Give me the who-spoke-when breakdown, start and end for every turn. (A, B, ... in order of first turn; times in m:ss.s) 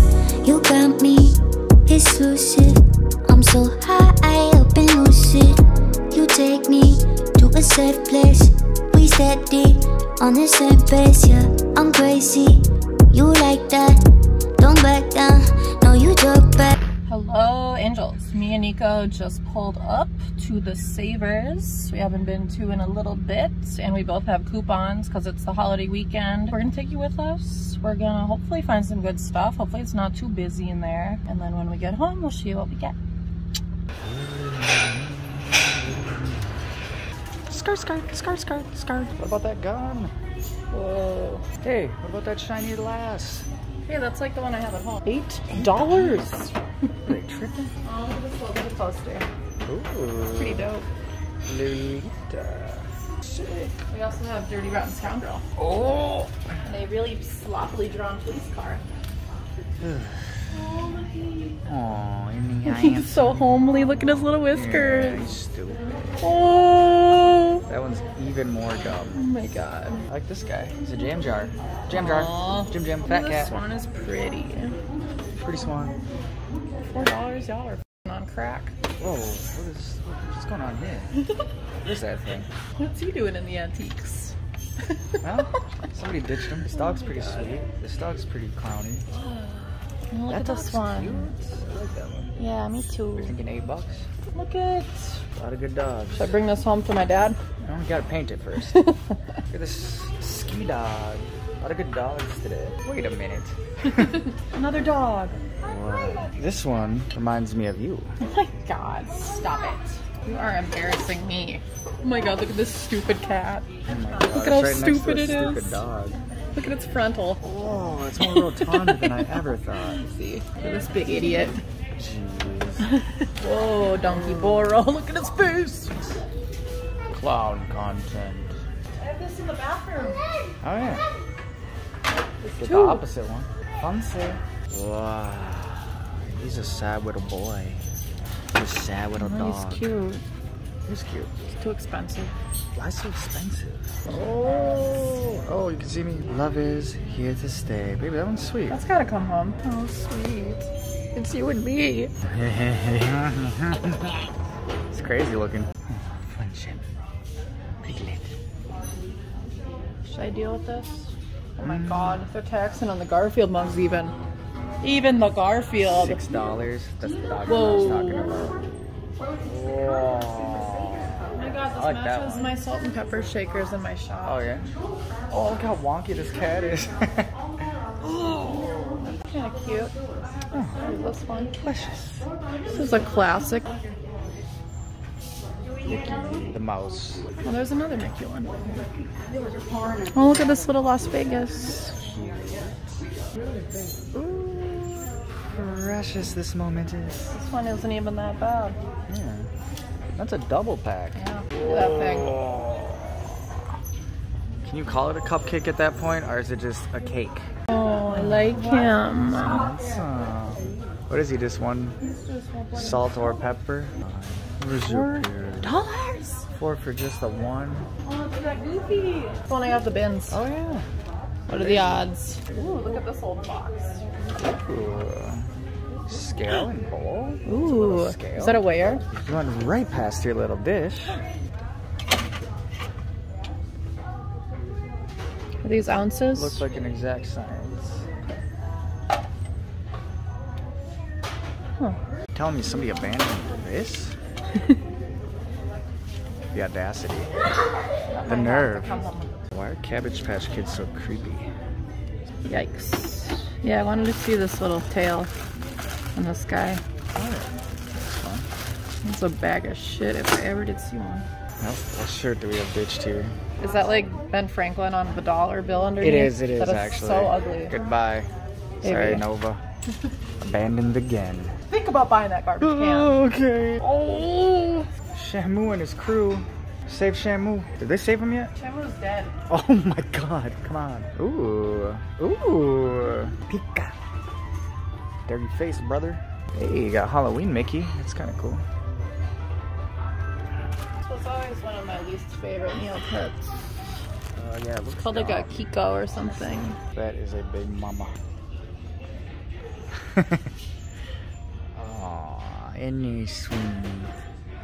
0:00.4-0:14.0 A
0:14.6-0:16.8 A
0:17.1-0:33.0 B
0:34.0-0:36.5 C
0:37.5-0:40.1 C
0:40.7-0:41.5 B
0:41.6-0:43.5 C
0:43.8-0:46.5 B
0:45.5-0:46.3 C
0:47.1-0:47.7 C
0:47.8-0:49.3 B
0:49.6-0:50.7 C
0:50.3-0:50.9 B
0:51.4-0:53.7 C
0:53.8-0:55.4 B
0:55.6-0:56.5 C
0:56.6-0:58.8 B
0:59.8-1:00.6 C
1:00.5-1:01.6 B
1:01.7-1:03.5 C
1:02.6-1:05.3 B
1:04.5-1:05.9 C
1:06.2-1:07.6 B
1:07.7-1:09.2 C
1:09.2-1:10.0 B
1:10.1-1:13.6 C
1:11.9-1:14.8 B
1:15.4-1:16.0 C
1:16.9-1:18.7 B
1:19.0-1:21.1 C
1:21.8-1:22.5 C
1:22.8-1:24.4 B
1:24.9-1:25.2 B
1:25.2-1:29.0 C
1:26.6-1:27.6 B
1:29.2-1:31.3 B
1:30.3-1:32.4 C
1:32.4-1:33.4 B
1:33.2-1:34.1 C
1:34.3-1:35.2 B
1:35.4-1:36.3 C
1:36.2-1:37.4 B
1:37.6-1:38.8 C
1:38.7-1:39.2 B
1:39.5-1:44.3 C
1:43.9-1:45.5 B
1:45.6-1:48.2 C
1:48.2-1:55.8 B
1:53.9-1:56.2 C
1:56.5-1:57.4 B
1:57.4-2:00.0 C
1:58.2-2:01.6 B
2:02.0-2:02.9 C
2:02.8-2:06.1 B
2:04.0-2:04.7 C
2:07.1-2:08.6 C
2:09.0-2:10.2 B
2:10.6-2:11.0 C
2:12.4-2:13.0 B
2:12.5-2:17.8 C
2:18.5-2:19.9 C
2:19.2-2:20.2 B
2:20.8-2:21.6 C
2:21.6-2:22.3 B
2:22.7-2:28.8 C
2:24.1-2:25.2 B
2:28.7-2:29.7 B
2:29.6-2:34.3 C
2:34.9-2:36.9 C
2:37.8-2:38.4 C
2:40.1-2:44.2 B
2:41.6-2:42.2 C
2:44.8-2:46.2 B
2:45.9-2:48.6 C
2:47.4-2:48.6 B
2:49.4-2:52.5 C
2:51.3-2:54.5 B
2:54.2-2:54.7 C
2:55.3-2:57.3 C
2:58.0-2:59.1 C
2:59.0-3:00.0 B
3:00.5-3:01.0 C
3:00.8-3:01.7 B
3:01.5-3:02.2 C
3:02.6-3:03.8 B
3:05.8-3:07.3 C
3:07.4-3:08.8 B
3:10.0-3:12.0 B
3:11.9-3:12.7 C
3:14.1-3:17.4 C
3:17.3-3:18.8 B
3:19.1-3:19.5 C
3:20.2-3:23.2 C
3:21.2-3:22.4 B
3:24.6-3:27.5 C
3:27.7-3:29.7 B
3:28.1-3:32.0 C
3:32.0-3:33.4 B
3:32.8-3:35.8 C
3:34.9-3:36.5 B
3:36.5-3:37.9 C
3:38.0-3:40.4 B
3:40.3-3:40.9 C
3:41.5-3:44.0 B
3:41.6-3:42.0 C
3:44.4-3:45.5 C
3:46.0-3:48.6 C
3:47.5-3:49.1 B
3:49.1-3:51.2 C
3:55.6-3:56.6 B
3:56.3-3:58.1 C
4:02.3-4:04.2 C
4:06.5-4:07.4 C
4:08.1-4:09.5 B
4:08.3-4:11.5 C
4:12.4-4:15.3 B
4:16.2-4:16.8 B
4:17.1-4:18.5 C
4:19.0-4:21.3 B
4:21.6-4:23.4 C
4:23.6-4:27.8 B
4:26.0-4:28.3 C
4:28.8-4:29.2 B
4:28.8-4:29.6 C
4:30.4-4:31.6 C
4:31.7-4:33.2 B
4:32.6-4:38.5 C
4:38.6-4:39.4 B
4:39.5-4:44.0 C
4:45.3-4:48.6 C
4:51.0-4:53.5 B
4:54.4-4:58.2 C
4:55.0-4:56.8 B
5:00.0-5:00.5 C
5:01.7-5:04.2 C